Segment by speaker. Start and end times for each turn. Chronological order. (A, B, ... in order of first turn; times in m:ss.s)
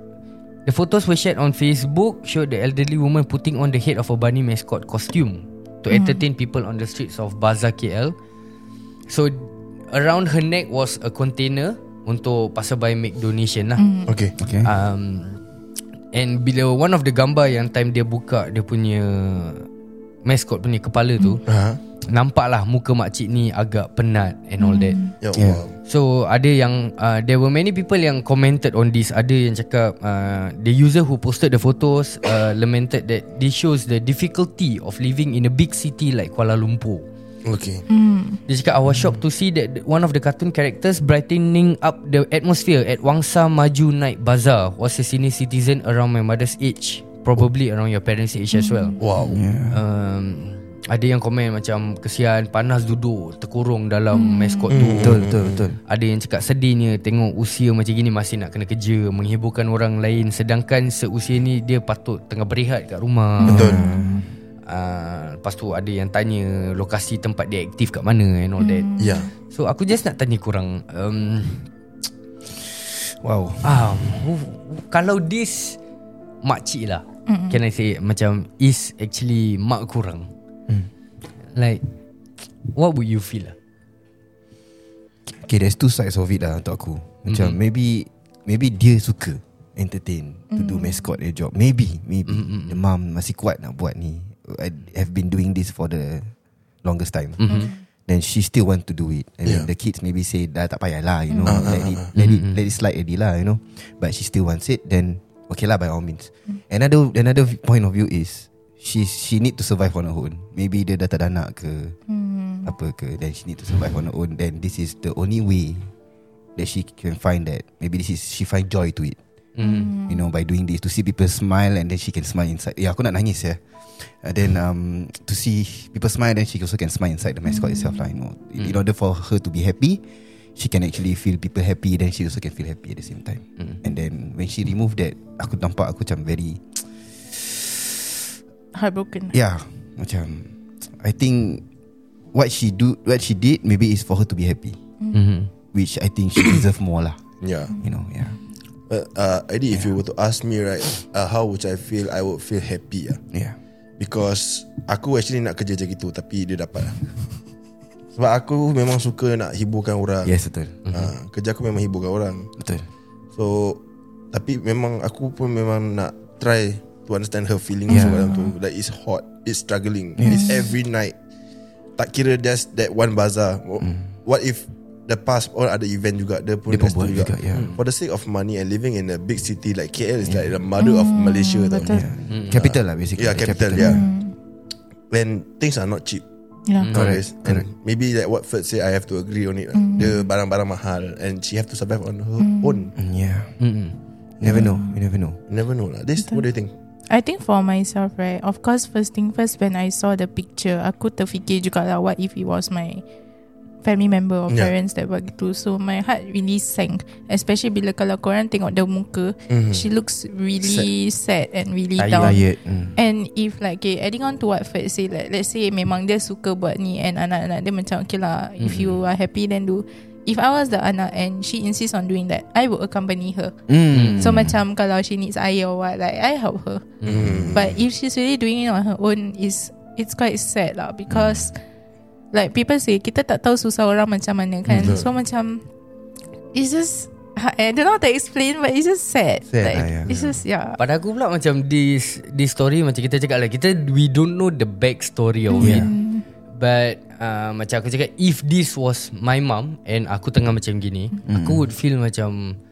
0:00.6-0:08.2 A
0:05.9-0:06.2 B
0:09.1-0:13.8 A
0:13.8-0:14.2 B
0:14.1-0:14.3 C
0:14.4-0:14.7 D
0:14.6-0:15.4 A
0:16.1-0:19.7 A
0:20.2-0:21.4 A
0:21.5-0:21.8 C
0:22.0-0:25.0 A
0:24.6-0:25.1 B
0:25.2-0:25.7 C
0:25.3-0:25.6 D
0:25.9-0:37.1 A
0:37.4-0:37.8 C
0:37.9-0:38.4 B
0:38.5-0:49.0 A
0:48.5-0:49.0 B
0:49.0-0:49.4 C
0:49.2-0:49.8 D
0:49.7-0:55.3 A
0:54.1-0:54.7 B
0:54.7-0:55.6 C
0:55.0-0:55.8 D
0:55.9-1:03.7 A
1:03.4-1:04.2 B
1:03.5-1:03.8 C
1:03.5-1:04.2 D
1:04.7-1:08.9 A
1:08.6-1:09.3 B
1:09.0-1:09.3 C
1:09.5-1:11.7 A
1:13.2-1:14.1 D
1:13.6-1:15.8 A
1:16.4-1:20.3 A
1:17.3-1:17.6 B
1:21.5-1:21.8 A
1:22.7-1:23.6 A
1:25.3-1:36.3 D
1:27.3-1:27.6 A
1:30.5-1:31.1 B
1:32.3-1:32.8 A
1:36.8-1:52.0 D
1:37.4-1:37.7 A
1:37.5-1:37.8 B
1:41.3-1:41.7 B
1:41.5-1:42.1 C
1:42.2-1:42.6 A
1:52.1-1:52.7 B
1:52.6-1:55.9 D
1:56.6-1:59.2 D
1:59.6-1:59.9 A
1:59.6-2:00.2 B
2:00.1-2:10.0 D
2:07.5-2:08.1 B
2:10.6-2:16.8 D
2:18.7-2:19.4 B
2:19.3-2:21.6 D
2:22.3-2:24.8 D
2:25.1-2:25.5 A
2:25.7-2:27.2 D
2:27.4-2:27.7 C
2:27.8-2:28.4 D
2:28.9-2:33.2 C
2:29.7-2:30.0 D
2:34.0-2:37.0 C
2:38.2-2:40.3 C
2:40.2-2:40.8 D
2:40.8-2:41.1 A
2:40.9-2:42.5 C
2:42.6-2:42.9 D
2:43.3-2:43.8 C
2:44.3-2:51.2 C
2:47.9-2:48.5 B
2:47.9-2:48.3 D
2:50.2-2:50.6 D
2:50.3-2:50.6 B
2:52.0-3:02.0 C
2:53.8-2:54.1 D
2:56.7-2:57.8 D
3:00.2-3:00.5 D
3:00.8-3:02.1 B
3:01.9-3:04.0 D
3:02.3-3:02.7 A
3:02.6-3:04.0 C
3:03.8-3:04.3 B
3:05.1-3:06.2 C
3:06.8-3:07.1 A
3:06.9-3:07.7 D
3:06.9-3:12.9 C
3:09.8-3:10.2 B
3:12.4-3:12.9 B
3:13.0-3:13.5 D
3:13.6-3:14.0 A
3:14.4-3:15.4 D
3:14.5-3:14.9 B
3:15.5-3:16.7 C
3:17.1-3:23.0 B
3:23.8-3:32.4 B
3:29.5-3:29.9 C
3:30.6-3:30.9 C
3:32.0-3:32.4 A
3:32.2-3:33.0 D
3:33.0-3:43.6 B
3:38.6-3:39.0 A
3:43.7-3:44.6 D
3:43.9-3:44.3 A
3:44.2-3:46.9 B
3:47.0-3:47.3 A
3:47.1-3:47.7 C
3:47.2-3:47.6 D
3:47.5-3:51.6 B
3:51.1-3:51.5 D
3:52.3-3:55.6 B
3:54.7-3:55.0 D
3:54.8-3:55.1 C
3:56.5-4:00.8 B
3:59.5-4:00.4 D
4:00.8-4:05.9 A
4:05.5-4:06.2 B
4:05.6-4:05.9 D
4:06.5-4:12.6 A
4:11.3-4:11.7 D